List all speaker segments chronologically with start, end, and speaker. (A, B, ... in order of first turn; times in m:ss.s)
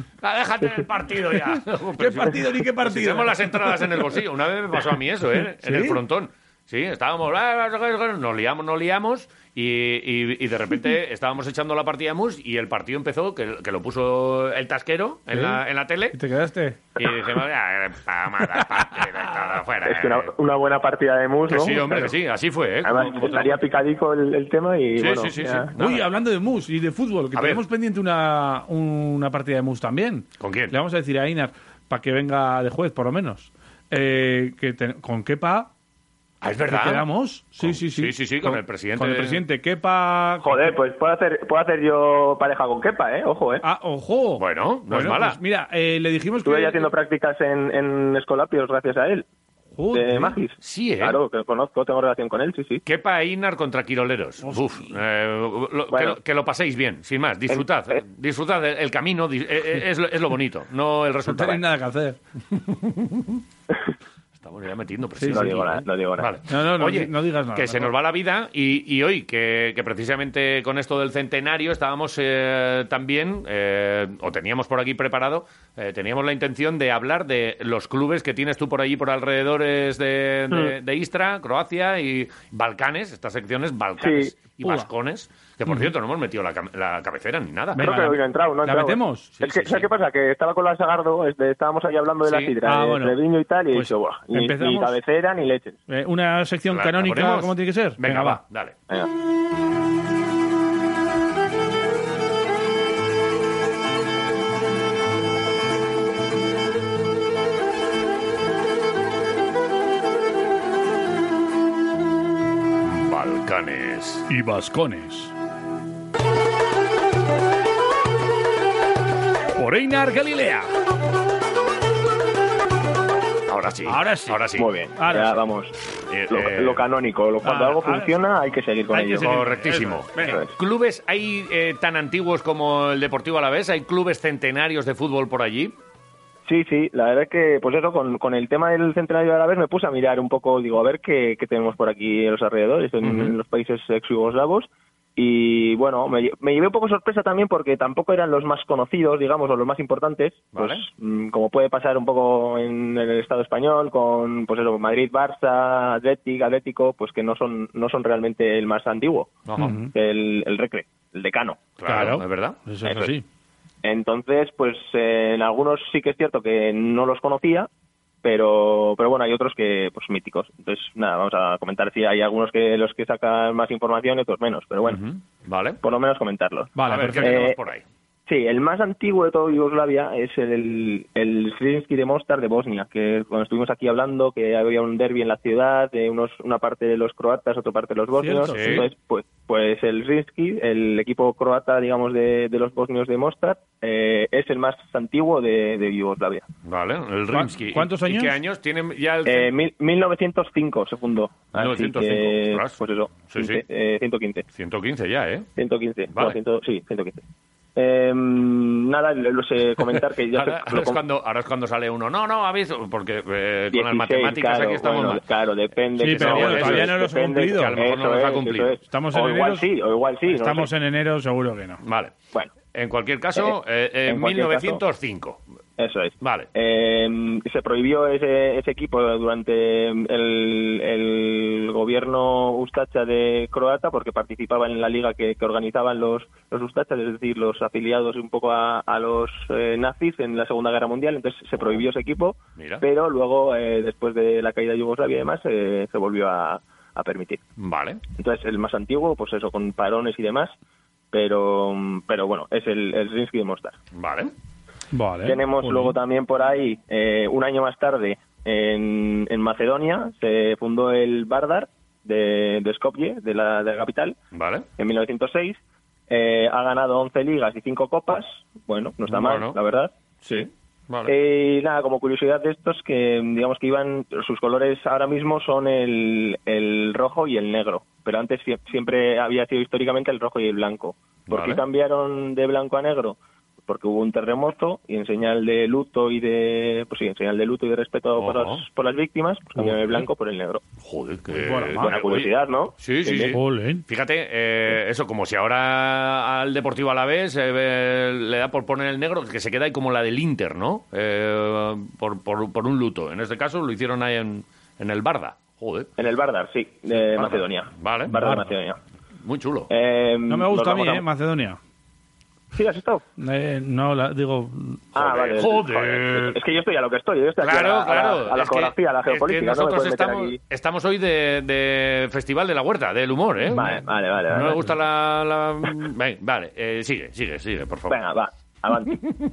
0:00.2-0:16.2 A
0:02.0-0:03.8 B
0:05.6-0:06.0 B
0:15.3-0:16.8 B
0:17.0-0:20.3 A
0:18.5-0:19.4 B
0:19.8-0:22.1 C
0:21.5-0:23.6 A
0:22.8-0:25.7 C
0:24.9-0:26.1 A
0:25.7-0:35.7 B
0:27.3-0:27.6 A
0:30.4-0:30.7 A
0:36.4-0:37.0 A
0:36.6-0:40.7 B
0:37.6-0:39.4 A
0:40.4-0:43.6 C
0:43.6-0:46.9 B
0:44.4-0:45.4 A
0:46.4-0:49.2 C
0:49.8-0:50.4 B
0:49.9-0:52.8 C
0:50.6-0:51.2 A
0:52.8-1:01.6 A
0:54.4-0:54.8 B
0:55.9-0:56.2 C
1:01.2-1:02.2 B
1:02.5-1:03.4 A
1:04.4-1:27.9 A
1:05.2-1:05.7 B
1:05.3-1:06.4 C
1:06.5-1:07.9 B
1:24.0-1:24.3 C
1:24.6-1:24.9 B
1:27.7-1:29.3 B
1:27.8-1:35.8 C
1:29.4-1:29.9 A
1:32.2-1:32.5 A
1:32.6-1:33.2 B
1:33.7-1:35.0 B
1:35.9-1:38.4 B
1:36.7-1:38.8 A
1:52.8-1:54.3 A
1:54.3-1:55.3 B
1:59.6-2:00.7 B
2:03.5-2:04.7 A
2:03.8-2:04.4 B
2:04.6-2:05.7 C
2:04.9-2:05.3 B
2:06.1-2:06.8 A
2:06.3-2:09.4 C
2:07.4-2:08.2 B
2:08.9-2:10.4 B
2:09.2-2:15.7 A
2:10.2-2:10.5 C
2:16.4-2:39.3 C
2:23.0-2:23.3 A
2:30.5-2:30.8 A
2:39.5-2:39.8 A
2:39.6-2:39.9 B
2:39.9-2:41.7 C
2:41.8-2:42.6 A
2:41.9-2:43.2 B
2:42.8-2:43.1 C
2:43.8-2:47.7 C
2:48.2-2:55.0 C
2:54.8-2:55.8 A
2:55.8-2:57.6 C
2:56.7-2:57.5 B
2:56.8-2:57.8 A
2:58.3-3:16.4 C
3:08.2-3:08.9 B
3:08.5-3:08.8 A
3:16.6-3:19.5 A
3:17.3-3:18.4 B
3:19.2-3:24.4 C
3:21.5-3:23.6 A
3:24.5-3:25.5 A
3:25.6-3:27.2 C
3:27.8-3:31.0 C
3:30.3-3:35.2 A
3:33.7-3:40.7 C
3:36.0-3:37.8 B
3:36.0-3:37.0 A
3:37.6-3:38.8 A
3:38.9-3:39.6 B
3:40.3-3:41.8 B
3:41.8-3:42.1 A
3:42.7-3:45.4 A
3:44.1-3:44.8 C
3:45.8-4:07.4 C
3:46.2-3:46.5 A
4:02.6-4:02.8 A
4:07.6-4:08.0 A
4:08.1-4:10.5 C
4:11.1-4:13.8 C
4:13.9-4:14.3 A
4:14.9-4:15.9 B
4:15.2-4:24.2 C
4:24.3-4:24.7 A
4:24.8-4:25.6 C
4:26.1-4:30.5 C
4:29.1-4:29.6 A
4:30.2-4:31.1 A
4:31.1-4:50.6 C
4:41.3-4:41.6 A
4:48.2-4:48.6 A
4:49.6-4:50.0 A
4:50.8-5:05.9 A
4:51.3-4:51.9 B
4:51.8-4:53.4 C
4:53.1-4:53.8 B
5:06.0-5:08.8 C
5:07.1-5:08.1 A
5:08.1-5:08.5 B
5:09.2-5:09.7 A
5:09.7-5:11.0 C
5:10.3-5:11.6 B
5:12.5-5:13.0 C
5:13.2-5:14.8 B
5:14.9-5:16.4 A
5:14.9-5:20.4 C
5:17.4-5:28.0 A
5:23.5-5:24.7 C
5:27.9-5:29.0 C